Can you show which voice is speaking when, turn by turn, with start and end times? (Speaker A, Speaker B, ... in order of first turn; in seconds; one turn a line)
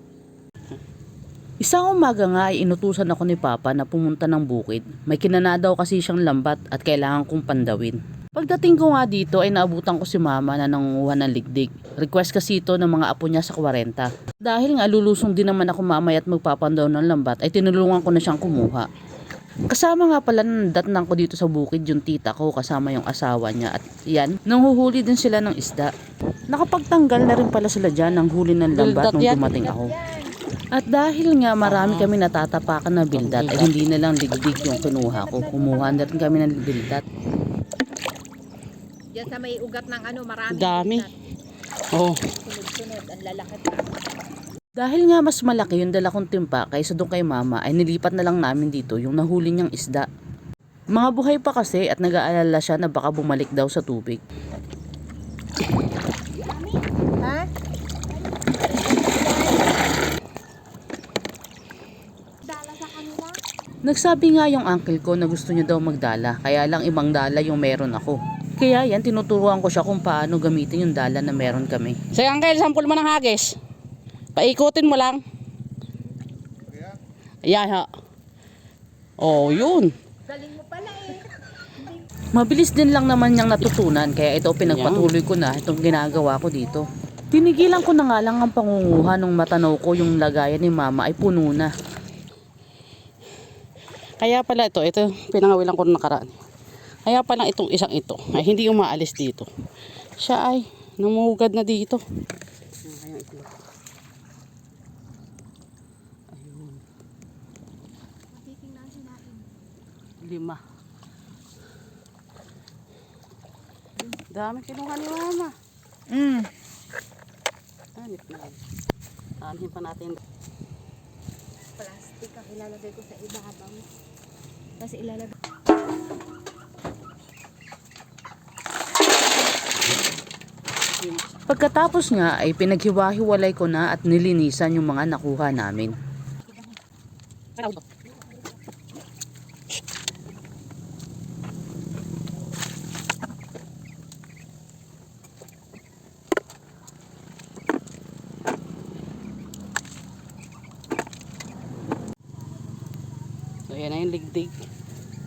Speaker A: 1.6-18.9
Speaker A: 19.7-25.9
Speaker A: 26.5-29.9
Speaker B: 28.7-29.6
Speaker C: 29.6-30.4
Speaker A: 30.7-37.0
Speaker B: 31.6-32.1
Speaker B: 33.1-33.7
Speaker C: 34.5-36.4
Speaker C: 39.1-41.1
Speaker B: 40.5-41.1
Speaker B: 41.9-42.2
Speaker C: 42.4-43.9
Speaker A: 44.8-50.1
Speaker A: 50.9-54.2
Speaker C: 56.5-57.5
Speaker C: 58.4-59.8
Speaker C: 62.5-63.4
Speaker A: 63.9-72.0
Speaker B: 72.1-73.6
Speaker B: 74.4-75.2
Speaker B: 77.5-77.9
Speaker B: 79.2-79.9
Speaker C: 80.3-82.0
Speaker A: 82.3-91.7
Speaker B: 84.7-85.1
Speaker B: 94.2-96.4
Speaker B: 97.1-99.5
Speaker B: 100.2-102.0
Speaker B: 102.8-103.5
Speaker B: 106.3-106.8
Speaker C: 108.3-109.5
Speaker B: 110.2-110.6
Speaker B: 114.3-115.5
Speaker C: 116.1-116.5
Speaker B: 118.0-118.6
Speaker B: 119.4-120.2
Speaker C: 121.8-123.9
Speaker C: 124.8-125.3
Speaker A: 131.5-136.0
Speaker B: 153.7-154.6